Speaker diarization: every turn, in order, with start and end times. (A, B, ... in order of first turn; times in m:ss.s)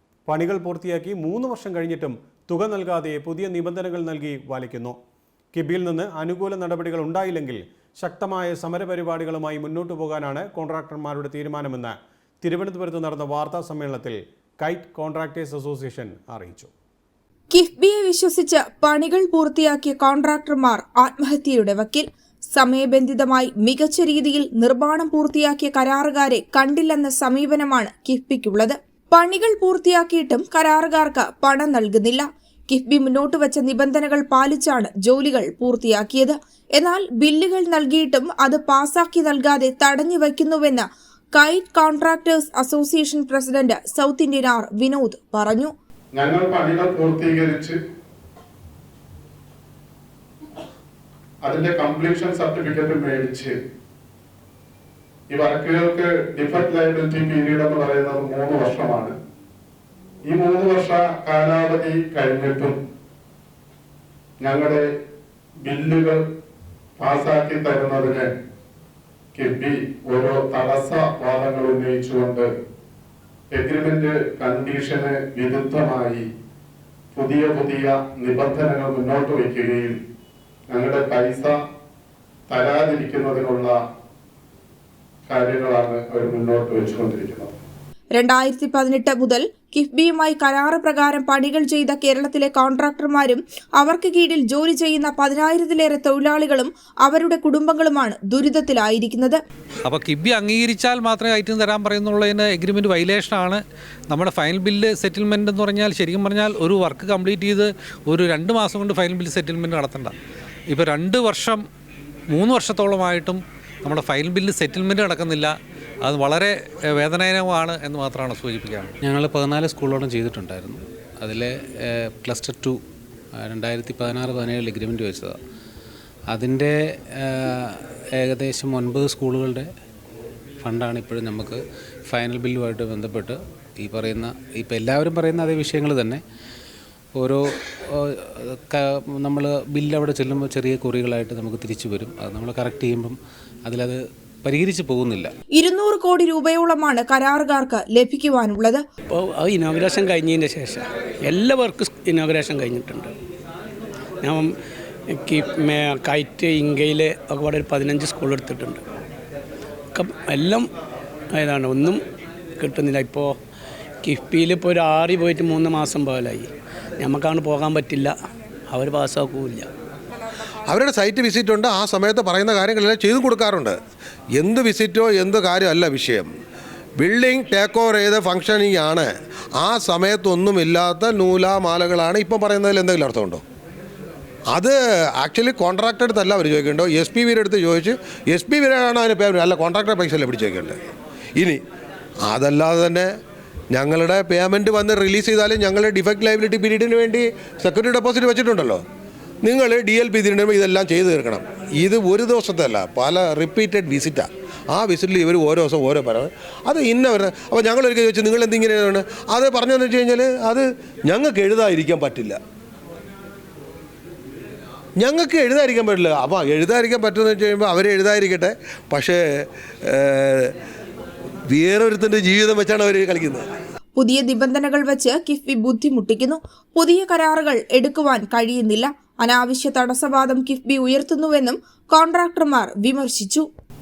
0:00.2-0:05.0 A
0:05.5-0:16.7 A
0:17.5-0:45.7 B
0:46.1-0:47.8 C
0:51.4-0:53.5 C
0:55.3-0:59.1 C
1:00.2-1:02.8 C
1:04.4-1:04.8 C
1:05.6-1:06.2 C
1:07.0-1:08.3 C
1:09.3-1:12.5 C
1:13.5-1:16.2 C
1:17.1-1:20.0 C
1:20.7-1:21.5 C
1:22.5-1:23.8 C
1:25.3-1:27.5 C
1:28.2-1:39.4 B
1:39.8-1:50.1 D
1:50.7-1:51.6 D
1:52.3-1:58.9 D
1:59.0-2:02.8 E
2:03.4-2:05.4 E
2:06.3-2:07.5 E
2:08.2-2:09.7 E
2:10.6-2:16.2 E
2:17.2-2:25.3 E
2:25.6-2:28.8 B
2:29.1-2:33.1 F
2:34.2-2:34.5 F
2:35.1-2:38.8 F
2:39.9-2:40.7 F
2:41.3-2:42.0 F
2:42.6-2:43.4 F
2:44.0-2:48.2 F
2:48.7-2:49.7 F
2:50.7-2:53.8 G
2:54.4-2:56.3 G
2:57.0-3:03.4 G
3:04.5-3:10.8 G
3:12.2-3:13.1 G
3:13.7-3:18.8 G
3:19.4-3:32.4 G
3:35.0-3:39.2 G
3:39.9-3:40.5 G
3:41.5-3:43.4 G
3:44.0-3:53.4 B